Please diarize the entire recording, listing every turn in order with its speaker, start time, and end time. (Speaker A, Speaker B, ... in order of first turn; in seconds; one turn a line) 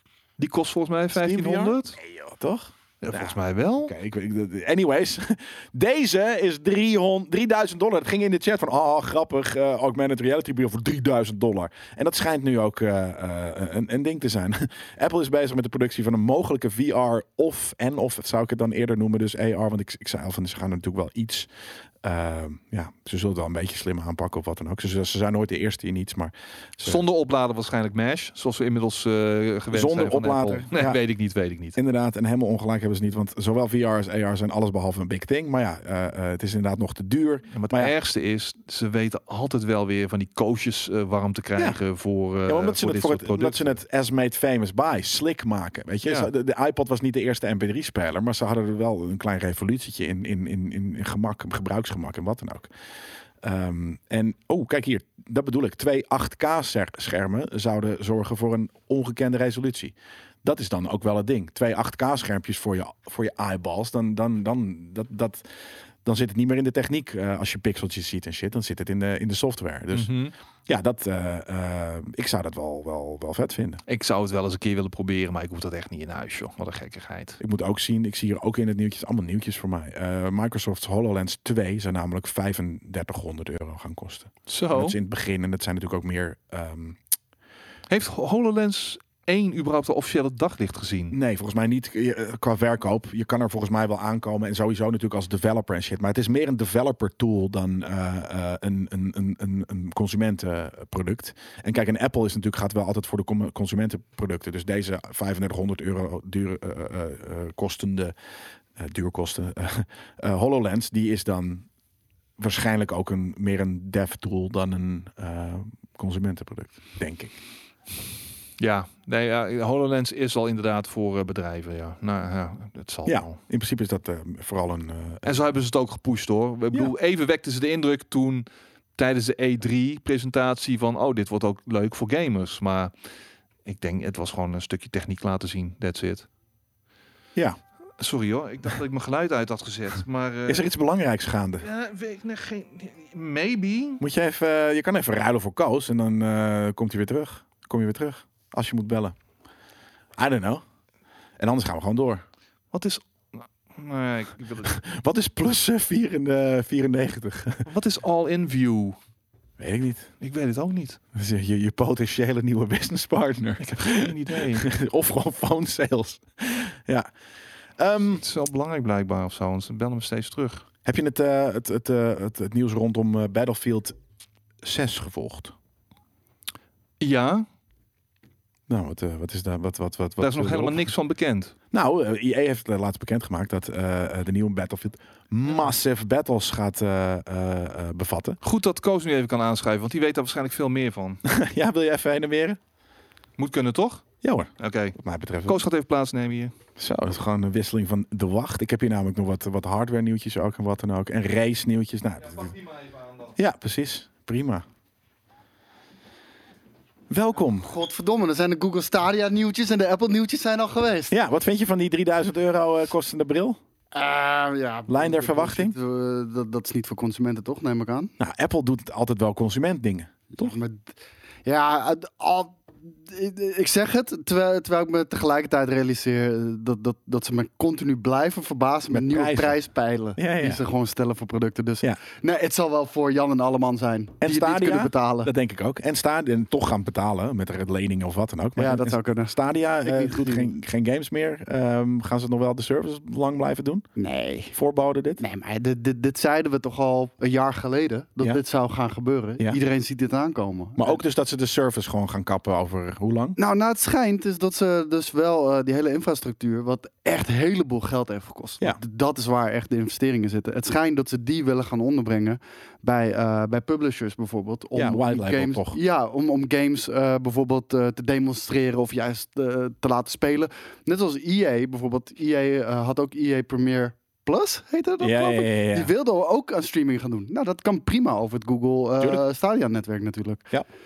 Speaker A: 0.4-2.0
Speaker B: 1.1-21.5
Speaker A: 3.0-3.9
Speaker B: 22.0-27.0
Speaker A: 26.8-31.8
Speaker B: 29.7-31.0
Speaker B: 31.8-37.9
Speaker A: 37.5-43.8
Speaker B: 42.5-52.7
Speaker A: 46.0-46.3
Speaker B: 53.4-65.4
Speaker B: 66.0-70.1
Speaker A: 69.9-70.3
Speaker B: 70.7-73.8
Speaker A: 73.9-77.4
Speaker B: 77.4-87.0
Speaker A: 84.5-85.0
Speaker A: 87.9-91.1
Speaker B: 91.1-108.1
Speaker B: 108.8-111.7
Speaker B: 112.4-117.4
Speaker A: 118.6-123.4
Speaker B: 123.0-125.3
Speaker A: 125.2-132.9
Speaker A: 133.6-136.3
Speaker A: 138.0-140.7
Speaker B: 140.5-141.7
Speaker A: 141.6-144.0
Speaker B: 144.0-149.1
Speaker B: 150.2-150.6
Speaker B: 151.4-152.2
Speaker A: 152.7-154.7
Speaker B: 154.6-157.7
Speaker A: 157.7-159.0
Speaker B: 159.6-160.1
Speaker A: 160.2-161.0
Speaker B: 161.1-167.1
Speaker A: 163.6-164.7
Speaker B: 167.8-168.2
Speaker A: 168.2-170.6
Speaker B: 170.8-173.9
Speaker B: 174.6-175.5
Speaker A: 177.0-177.5
Speaker B: 178.7-180.9
Speaker A: 180.2-181.5
Speaker B: 181.7-188.4
Speaker A: 188.4-191.2
Speaker B: 191.2-192.6
Speaker A: 193.4-194.1
Speaker B: 194.2-195.6
Speaker A: 194.6-196.6
Speaker B: 196.8-202.6
Speaker A: 202.4-203.3
Speaker B: 203.4-204.6
Speaker B: 207.1-207.7
Speaker C: 207.6-211.1
Speaker B: 211.1-213.6
Speaker C: 213.9-218.1
Speaker B: 214.9-215.7
Speaker B: 218.2-220.6
Speaker C: 220.4-220.9
Speaker C: 221.4-235.3
Speaker B: 228.9-229.6
Speaker B: 230.2-230.6
Speaker B: 234.2-243.9
Speaker C: 238.6-240.5
Speaker C: 243.9-244.6
Speaker B: 244.5-245.2
Speaker C: 245.2-251.0
Speaker B: 250.8-253.4
Speaker C: 253.4-280.5
Speaker B: 264.7-265.8
Speaker B: 275.0-275.9